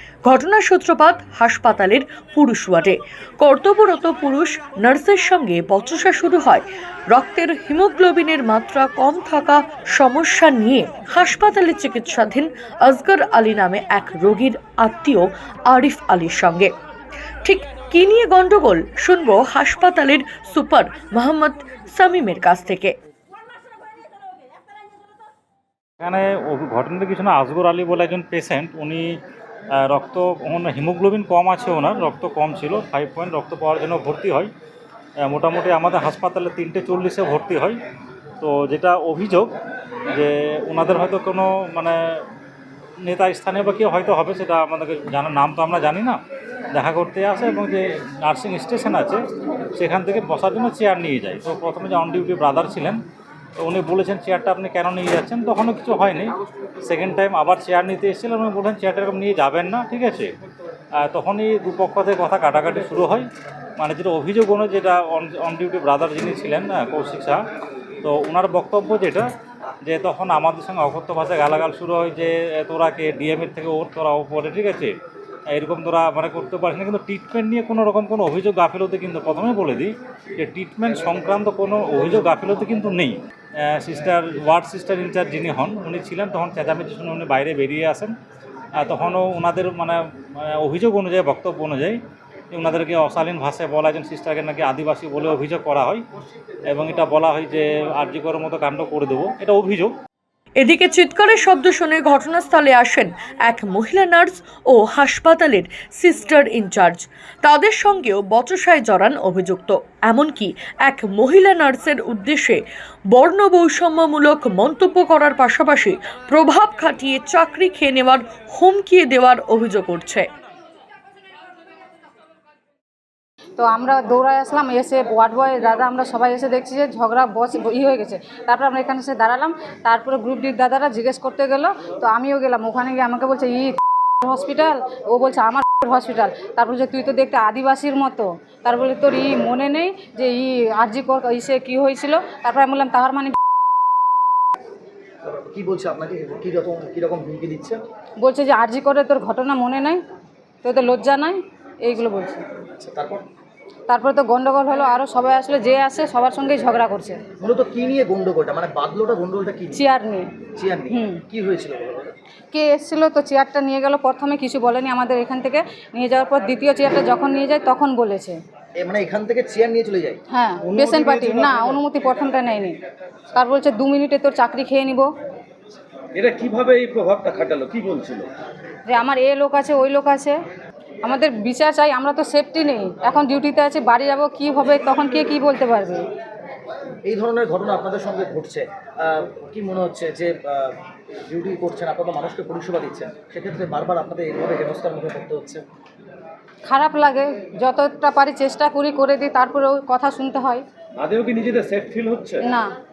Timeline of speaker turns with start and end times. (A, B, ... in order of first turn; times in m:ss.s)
0:00.2-0:16.7 A
0:17.4-0:22.9 A
0:26.0-0:29.2 B
0:29.8-0:34.5 B
0:35.2-0:37.8 B
0:38.4-0:39.5 B
0:40.1-0:42.0 B
0:43.0-0:46.2 B
0:46.7-0:49.2 B
0:49.8-0:53.0 B
0:53.6-1:00.3 B
1:01.0-1:07.4 B
1:08.0-1:09.3 B
1:09.8-1:14.9 B
1:15.5-1:28.1 B
1:28.8-1:36.0 B
1:36.7-1:39.9 B
1:40.6-2:00.3 A
2:03.6-2:23.4 C
2:25.2-2:27.8 D
2:28.2-2:30.0 C
2:30.6-2:32.4 C
2:32.8-2:33.3 D
2:33.9-2:37.2 C
2:37.4-2:39.8 D
2:39.7-2:40.3 C
2:40.5-2:42.1 D
2:40.9-2:41.2 C
2:42.5-2:48.4 C
2:48.8-2:50.2 D
2:50.3-2:52.8 C
2:50.6-2:51.8 E
2:53.3-2:55.1 C
2:56.2-2:58.3 E
2:58.9-3:00.4 C
3:01.0-3:06.1 C
3:07.0-3:15.6 D
3:16.7-3:20.6 C
3:21.0-3:22.4 E
3:22.4-3:22.7 C